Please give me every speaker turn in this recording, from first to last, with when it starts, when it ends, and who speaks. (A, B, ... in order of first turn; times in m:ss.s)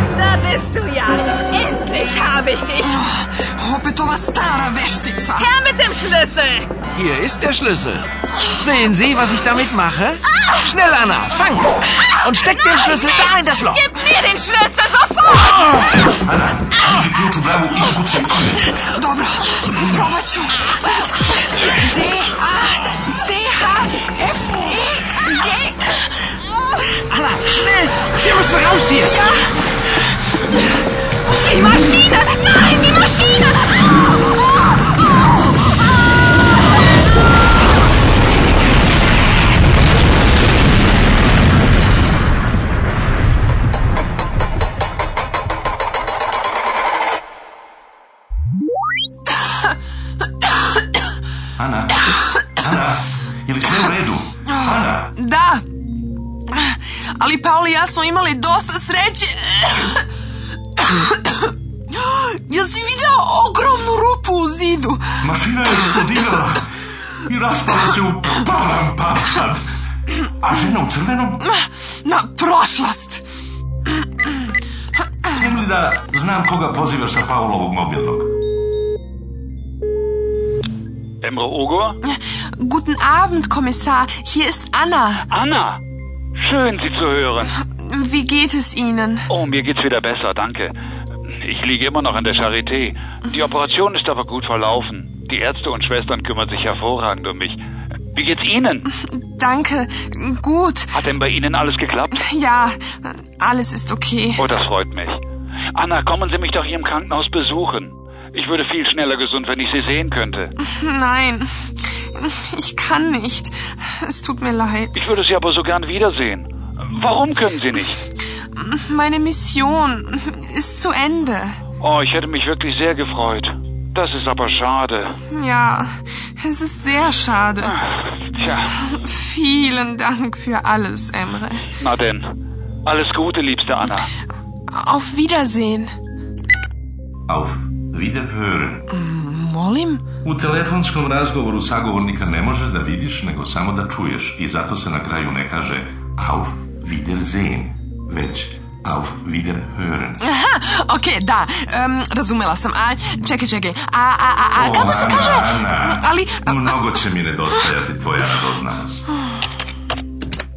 0:00.1-0:03.0 A
0:02.8-0:05.6 B
0:05.4-0:06.8 A
0:06.9-0:13.9 C
0:10.4-0:10.7 A
0:12.1-0:15.9 A
0:16.1-0:18.6 D
0:18.8-0:21.0 B
0:21.7-0:26.7 B
0:27.1-0:29.2 C
0:29.0-0:29.5 B
0:31.3-0:34.0 A
0:51.6-0:55.1 D
0:54.4-0:55.6 B
0:56.5-1:00.0 B
1:00.8-1:05.2 B
1:05.2-1:06.7 D
1:07.2-1:09.7 D
1:10.2-1:11.4 D
1:11.4-1:13.2 B
1:15.3-1:18.3 D
1:21.2-1:22.0 E
1:22.0-1:25.3 B
1:25.3-1:25.8 E
1:26.4-1:27.5 E
1:27.5-1:29.3 B
1:29.3-1:30.7 E
1:31.4-1:37.6 E
1:38.1-1:38.8 E
1:38.9-1:41.0 B
1:40.9-1:42.2 E
1:42.1-1:44.5 B
1:44.4-1:45.2 E
1:45.7-1:50.5 E
1:50.6-1:51.5 B
1:52.1-1:55.1 B
1:54.9-1:58.0 E
1:58.6-2:01.6 B
2:01.8-2:05.2 E
2:05.3-2:07.8 B
2:07.6-2:08.7 E
2:08.7-2:11.7 B
2:11.8-2:12.3 E
2:12.8-2:14.1 E
2:14.7-2:15.9 B
2:17.3-2:18.8 D
2:18.9-2:20.0 B
2:20.2-2:30.2 D
2:30.2-2:37.7 B
2:34.5-2:39.1 D